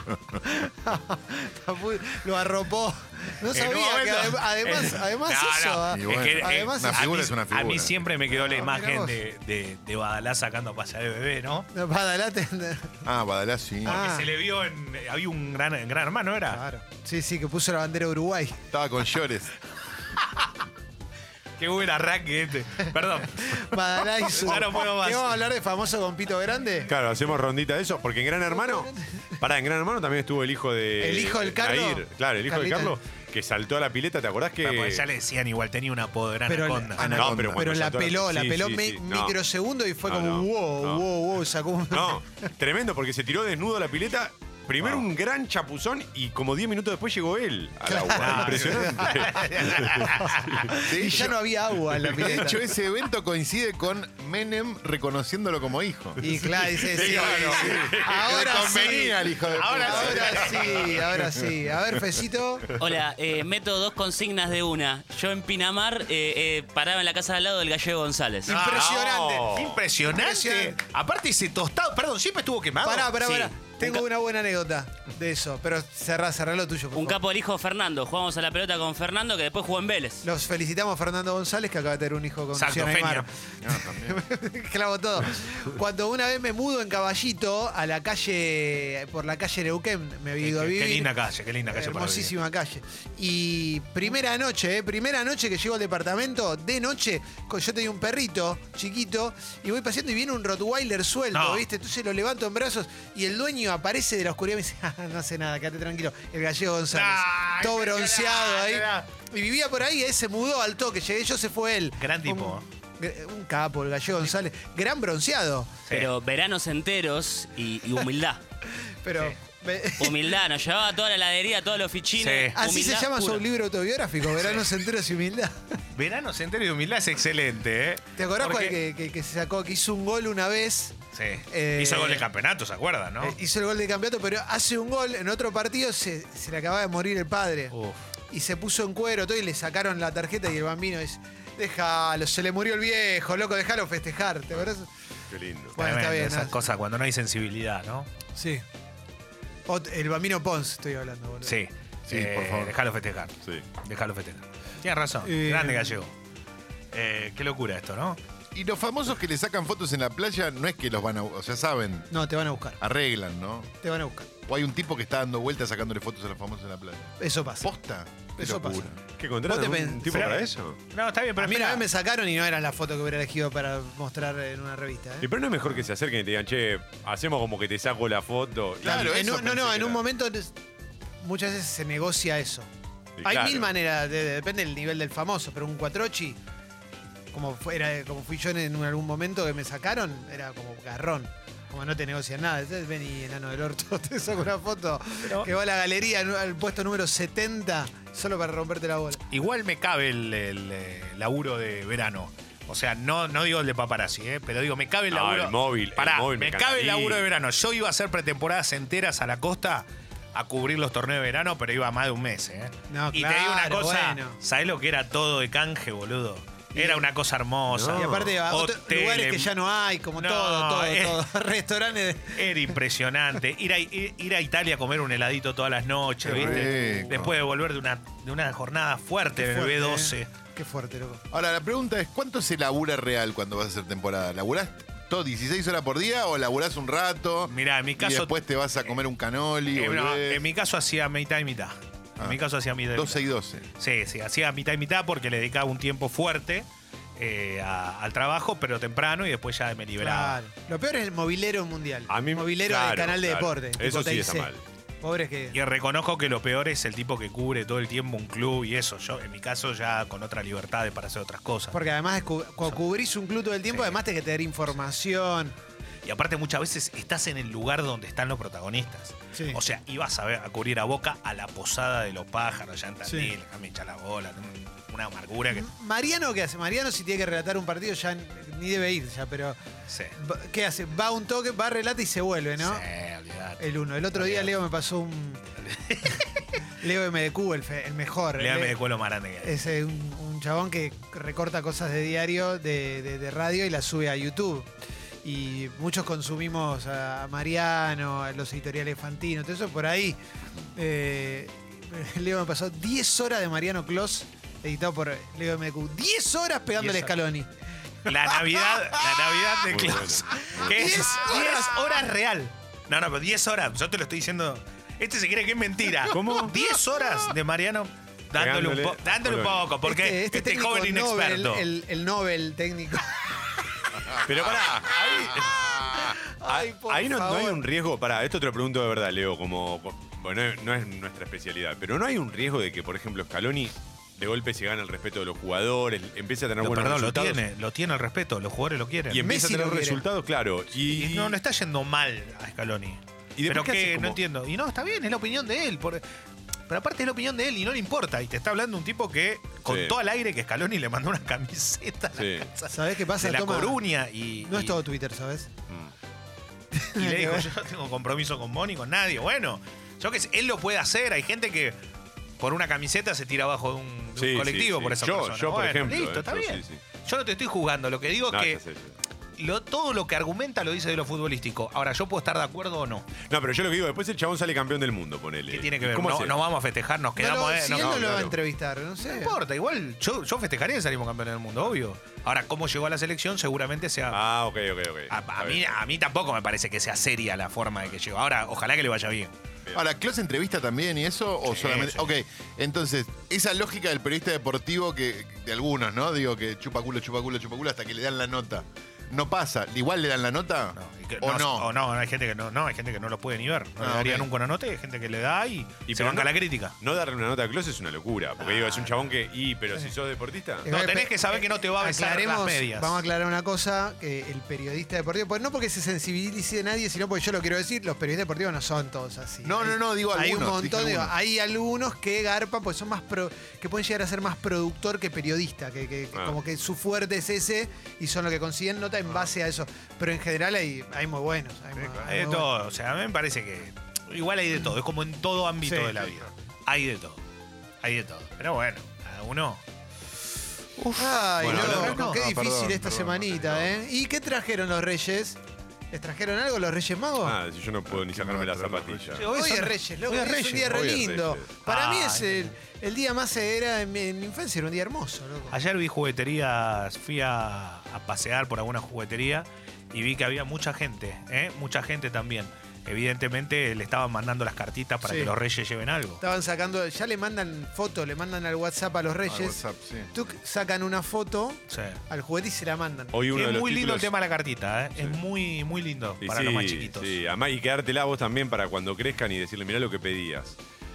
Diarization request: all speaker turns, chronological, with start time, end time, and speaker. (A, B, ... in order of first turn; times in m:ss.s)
0:00.4-0:07.1 A
0:03.5-0:11.7 B
0:05.9-0:08.2 C
0:08.3-0:09.2 A
0:11.7-0:13.0 A
0:13.0-0:14.0 C
0:13.9-0:14.3 A
0:13.9-0:16.6 B
0:16.5-0:18.6 A
0:18.7-0:19.6 C
0:21.6-0:25.4 B
0:23.3-0:26.9 A
0:26.8-0:35.0 D
0:28.5-0:29.4 A
0:31.0-0:33.0 A
0:34.6-0:37.5 B
0:36.5-0:42.5 A
0:37.0-0:39.4 D
0:40.0-0:41.1 D
0:41.9-0:50.7 D
0:47.9-0:49.5 A
0:48.1-0:50.6 B
0:50.0-0:52.6 A
0:50.9-0:51.4 C
0:51.9-0:56.2 C
0:56.2-1:02.7 A
0:56.4-0:58.6 D
0:57.0-1:01.5 C
0:59.5-1:01.0 B
1:02.8-1:08.6 E
1:08.5-1:09.5 A
1:08.5-1:14.1 B
1:08.6-1:09.8 D
1:10.1-1:10.8 A
1:12.8-1:17.2 A
1:17.0-1:20.2 E
1:20.2-1:31.1 A
1:22.5-1:23.3 B
1:23.6-1:24.2 C
1:30.4-1:32.3 B
1:31.7-1:55.8 A
1:41.3-1:41.7 B
1:46.9-1:49.1 B
1:52.0-1:52.6 B
1:55.9-1:58.4 E
1:58.8-2:00.3 A
2:00.0-2:03.4 E
2:02.2-2:02.6 B
2:02.5-2:05.8 A
2:06.0-2:08.8 B
2:08.2-2:11.0 A
2:11.1-2:13.4 B
2:11.5-2:12.3 A
2:13.2-2:17.8 A
2:17.7-2:18.0 B
2:18.3-2:24.9 A
2:25.3-2:25.8 D
2:25.8-2:26.6 A
2:25.8-2:28.1 B
2:28.4-2:28.6 A
2:29.7-2:31.6 A
2:31.4-2:36.1 B
2:32.1-2:32.7 C
2:35.2-2:36.0 A
2:36.9-2:38.2 B
2:38.5-2:42.1 C
2:42.1-2:42.8 A
2:42.8-2:43.7 C
2:43.8-2:44.3 A
2:44.5-2:49.0 C
2:47.2-2:47.7 A
2:48.4-2:48.9 A
2:49.2-2:50.8 D
2:49.5-2:50.5 A
2:50.1-2:50.4 B
2:50.9-2:51.9 B
2:51.4-2:55.3 A
2:55.2-3:00.0 D
2:58.8-3:00.5 A
2:58.8-2:59.5 C
3:01.2-3:02.7 A
3:03.2-3:03.7 D
3:03.2-3:06.4 A
3:07.3-3:19.2 A
3:15.2-3:15.5 B
3:19.3-3:39.5 B
3:25.1-3:27.3 D
3:32.9-3:34.4 A
3:36.8-3:37.0 A
3:37.7-3:38.3 D
3:37.9-3:42.8 A
3:40.2-3:41.2 B
3:42.3-3:50.3 B
3:46.2-3:47.4 C
3:46.3-3:46.6 A
3:49.4-3:51.2 A
3:51.3-4:00.5 C
3:57.5-3:58.3 B
3:59.7-4:03.2 B
4:02.9-4:03.7 C
4:03.8-4:10.4 B
4:10.0-4:14.5 A
4:12.1-4:14.6 D
4:15.0-4:15.6 A
4:15.5-4:21.8 B
4:21.7-4:25.6 A
4:23.7-4:24.0 B
4:26.0-4:35.7 B
4:33.0-4:33.3 A
4:35.5-4:39.6 A
4:39.9-4:40.2 B
4:40.2-4:42.9 A
4:42.6-4:44.5 B
4:43.6-4:45.4 A
4:45.6-4:46.4 B
4:46.8-4:48.8 A
4:48.4-4:49.5 B
4:49.4-4:54.7 A
4:55.2-5:00.2 A
5:00.8-5:07.5 A
5:06.8-5:07.2 B
5:08.1-5:21.7 B
5:09.7-5:10.9 D
5:10.5-5:12.0 A
5:16.1-5:16.7 D
5:18.4-5:19.7 D
5:19.8-5:23.6 A
5:24.1-5:37.4 D
5:24.4-5:25.9 C
5:25.9-5:27.6 A
5:36.6-5:39.3 B
5:39.1-5:41.4 D
5:39.2-5:40.0 A
5:40.8-5:46.0 B
5:43.4-5:44.2 D
5:46.7-5:54.8 B
5:49.7-5:50.0 D
5:52.2-5:52.5 D
5:52.7-5:53.8 A
5:54.4-5:55.5 A
5:56.8-5:57.5 A
5:57.0-6:01.8 B
6:02.4-6:08.6 B
6:04.2-6:06.8 D
6:08.3-6:09.0 D
6:09.4-6:13.1 B
6:13.2-6:16.4 D
6:15.5-6:18.3 B
6:17.2-6:19.4 A
6:17.8-6:18.4 D
6:19.0-6:24.2 B
6:24.1-6:25.8 D
6:25.1-6:29.3 B
6:29.8-6:41.7 C
6:31.4-6:32.1 B
6:40.7-6:46.8 B
6:43.8-6:44.3 C
6:45.9-6:50.7 D
6:48.4-6:49.0 B
6:50.6-7:12.5 A
6:50.7-6:53.0 B
6:59.4-7:01.1 C
7:12.0-7:17.2 B
7:15.6-7:15.9 A
7:17.8-7:19.6 B
7:20.8-7:22.2 B
7:20.9-7:25.4 A
7:21.4-7:22.0 D
7:21.5-7:23.8 C
7:25.9-7:27.4 A
7:27.2-7:29.3 D
7:27.9-7:29.2 C
7:29.2-7:30.9 B
7:29.3-7:35.6 A
7:30.7-7:31.5 D
7:31.6-7:32.6 B
7:35.5-7:46.2 B
7:45.0-7:45.3 A
7:46.2-7:49.6 A
7:49.3-7:50.1 C
7:50.1-7:53.2 A
7:51.7-7:52.0 B
7:53.1-7:54.1 D
7:53.3-7:57.2 B
7:56.2-8:00.6 D